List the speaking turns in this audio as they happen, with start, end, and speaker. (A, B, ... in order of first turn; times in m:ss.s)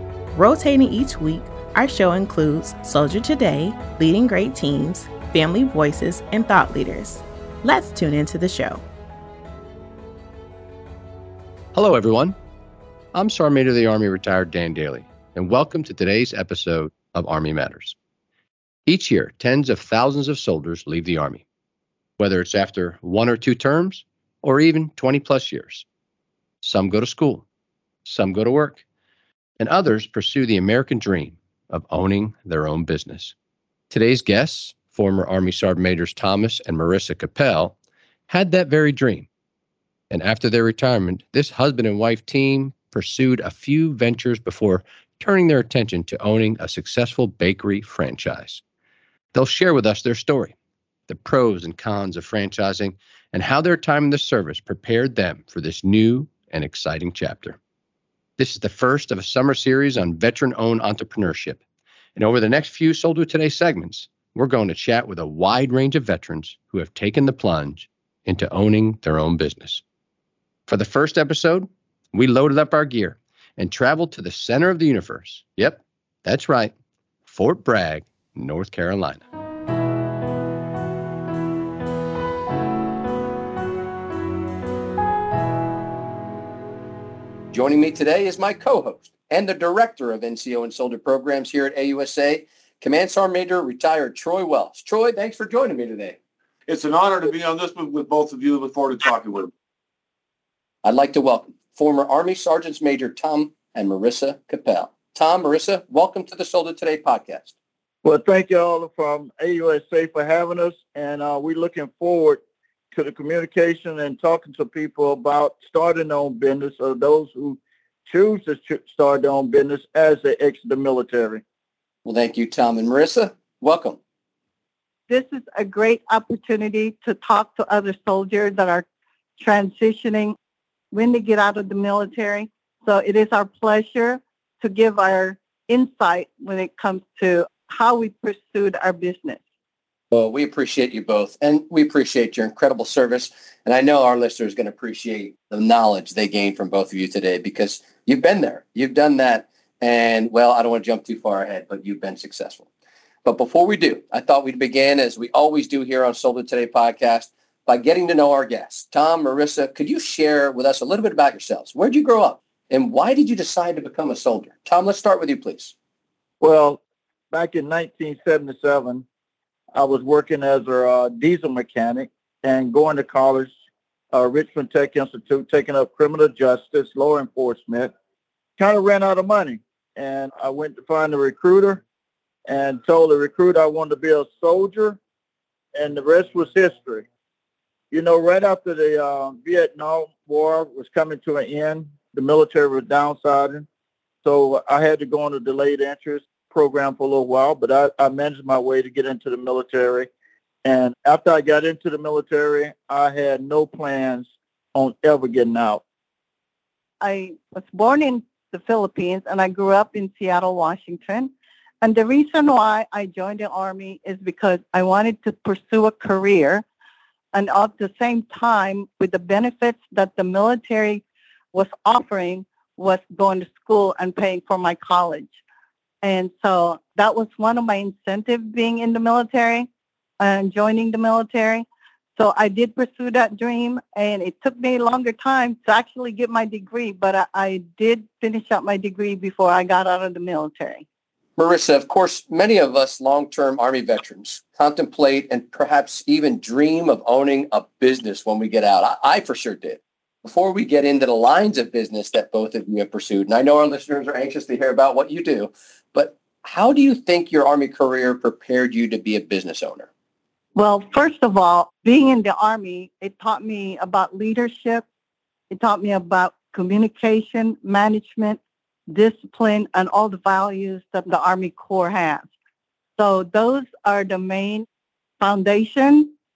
0:00.3-0:08.8 A
0:11.7-0:12.4 B
0:13.1-0:17.9 B
0:18.9-0:21.4 B
0:22.2-0:25.8 B
0:26.6-0:27.4 B
0:28.0-0:28.8 B
0:29.6-0:33.3 B
0:33.9-0:37.7 B
0:38.3-0:39.3 B
0:40.1-0:48.6 B
0:49.3-0:50.5 B
0:51.1-0:57.6 B
0:58.4-1:01.6 B
1:02.2-1:09.8 B
1:10.7-1:16.7 B
1:17.3-1:19.2 B
1:27.5-1:36.2 B
1:36.7-1:39.5 C
1:40.8-1:47.5 B
1:48.0-2:01.4 D
2:02.0-2:04.0 B
2:05.1-2:08.8 E
2:09.4-2:10.4 E
2:10.9-2:19.4 E
2:20.1-2:32.6 B
2:33.2-2:45.7 B
2:46.4-2:46.8 D
2:47.3-2:49.0 D
2:49.7-2:53.5 D
2:54.1-2:57.9 D
2:58.6-3:01.8 D
3:02.5-3:05.0 D
3:05.7-3:07.0 D
3:07.9-3:13.7 D
3:14.2-3:20.1 D
3:20.6-3:25.8 D
3:27.0-3:31.3 E
3:31.8-3:36.6 E
3:37.3-3:45.4 E
3:46.0-3:49.7 E
3:50.2-4:00.8 E
4:01.4-4:19.9 B
4:20.6-4:24.8 E
4:25.5-4:32.3 E
4:33.0-4:34.6 E
4:35.2-4:36.1 E